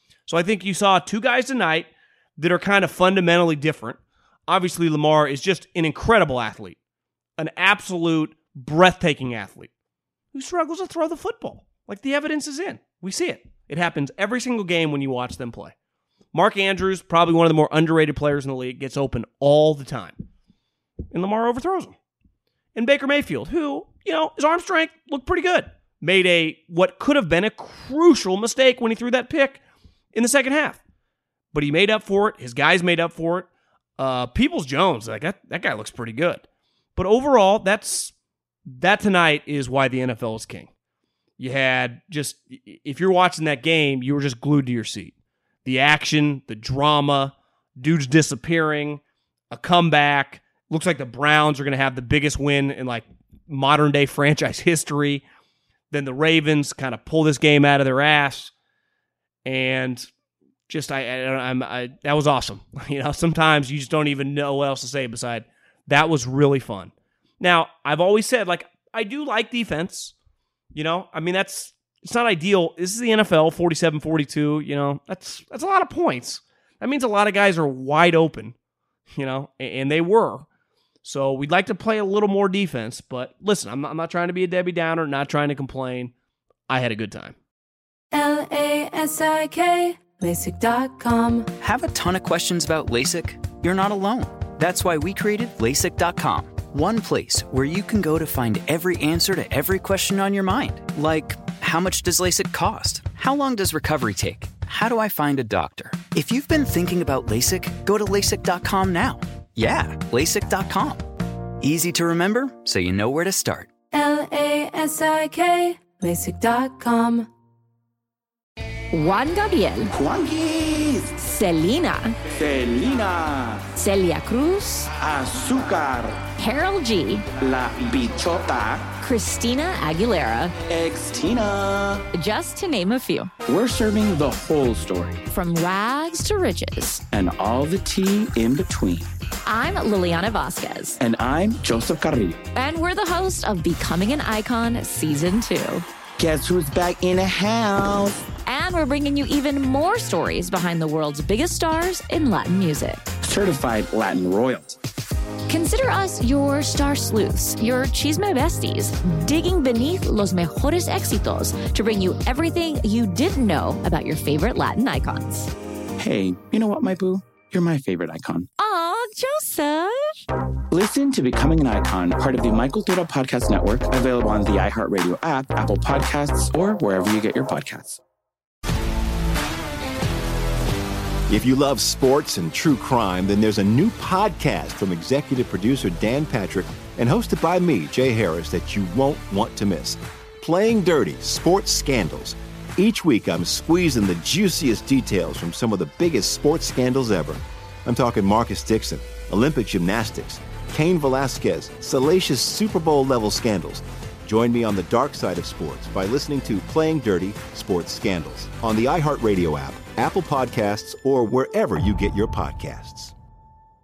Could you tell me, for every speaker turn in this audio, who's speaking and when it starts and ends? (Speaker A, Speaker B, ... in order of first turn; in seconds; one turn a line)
Speaker A: 0.3-6.8
Speaker A: 7.4-9.7
Speaker A: 10.3-15.7
Speaker A: 16.3-20.2
Speaker A: 21.1-21.9
Speaker A: 22.8-29.6
Speaker A: 30.1-30.8
Speaker A: 31.5-36.4
Speaker A: 37.0-38.1
Speaker A: 38.7-40.7
Speaker A: 41.4-45.1
Speaker A: 45.6-55.2
Speaker A: 55.9-58.5
Speaker A: 59.5-60.1
Speaker A: 60.7-70.1
Speaker A: 70.7-78.5
Speaker A: 79.1-80.5
Speaker A: 81.0-86.1
Speaker A: 86.7-87.3
Speaker B: 88.1-91.5
Speaker C: 91.6-113.7
Speaker B: 113.9-117.3
Speaker D: 118.9-119.9
Speaker E: 119.9-121.2
Speaker D: 121.2-122.2
Speaker E: 122.3-123.6
Speaker D: 123.8-124.9
Speaker E: 125.0-126.2
Speaker D: 126.4-127.3
Speaker E: 127.4-128.9
Speaker D: 129.0-130.6
Speaker E: 130.7-132.0
Speaker D: 132.1-133.3
Speaker E: 133.5-135.2
Speaker D: 135.3-137.0
Speaker E: 137.1-139.1
Speaker D: 139.4-141.0
Speaker E: 141.0-142.4
Speaker D: 142.6-145.9
Speaker E: 146.2-148.2
Speaker D: 148.5-153.0
Speaker E: 153.2-154.8
Speaker D: 155.5-165.5
Speaker E: 166.0-168.5
Speaker D: 168.6-170.2
Speaker E: 170.7-178.0
Speaker F: 181.3-213.2